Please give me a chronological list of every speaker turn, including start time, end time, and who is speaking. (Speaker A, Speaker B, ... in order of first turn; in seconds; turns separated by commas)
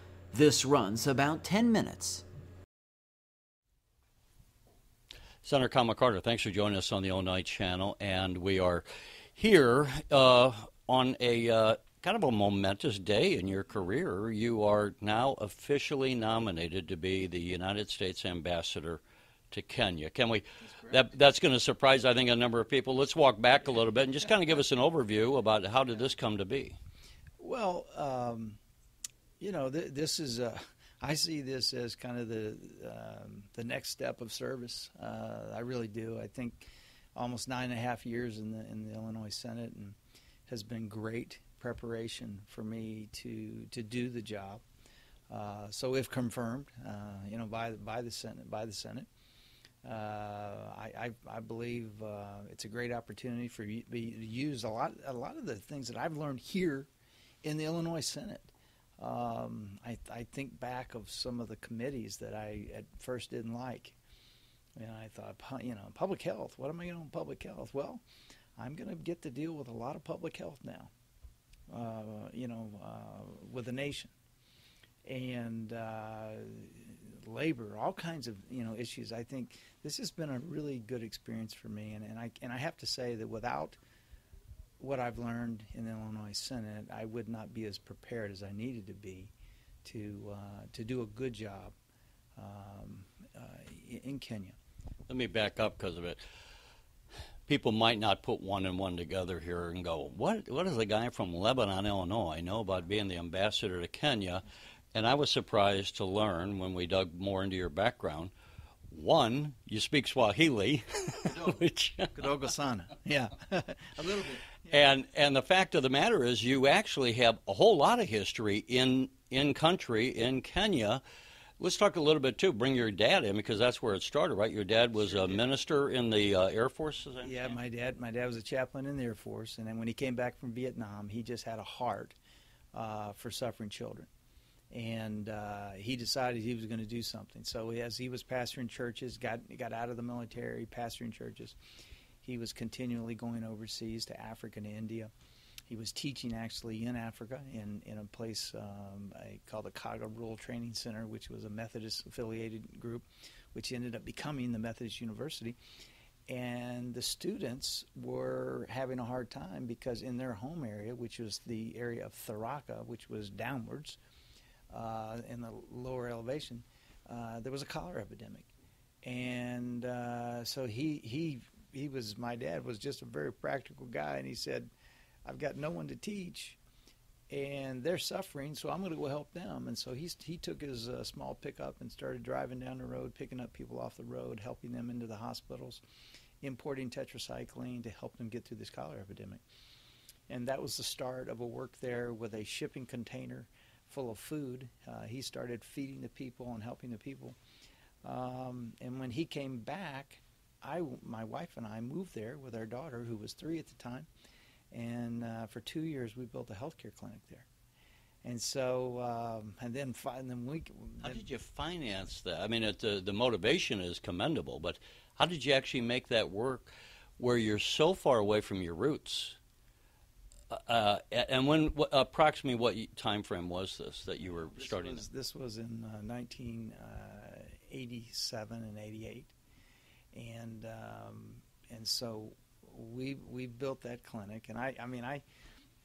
Speaker A: 0.3-2.2, Speaker B: 5.4-8.8, Speaker B: 9.4-26.8, Speaker C: 27.4-28.6, Speaker C: 29.4-44.6, Speaker C: 45.3-49.1, Speaker C: 49.8-56.9, Speaker C: 57.4-64.0, Speaker C: 64.8-68.0, Speaker C: 68.6-70.9, Speaker C: 71.7-74.1, Speaker C: 75.0-83.8, Speaker C: 84.8-89.3, Speaker C: 89.8-91.8, Speaker C: 92.4-94.6, Speaker B: 95.1-96.2, Speaker B: 97.5-108.3, Speaker B: 108.9-112.3, Speaker C: 112.2-114.8, Speaker B: 114.7-121.0, Speaker B: 121.6-127.6, Speaker C: 125.0-125.4, Speaker C: 127.2-132.2, Speaker C: 132.7-134.1, Speaker C: 134.7-141.6, Speaker C: 142.2-145.1, Speaker C: 145.7-155.6, Speaker C: 156.3-164.0, Speaker C: 164.7-168.5, Speaker C: 169.0-174.7, Speaker C: 175.2-176.6, Speaker C: 177.3-185.8, Speaker C: 186.4-189.4, Speaker C: 190.3-197.4, Speaker C: 198.0-204.1, Speaker C: 204.7-207.5, Speaker C: 208.2-211.2, Speaker B: 211.0-219.4, Speaker B: 220.5-225.1, Speaker C: 224.2-229.3, Speaker C: 230.1-235.2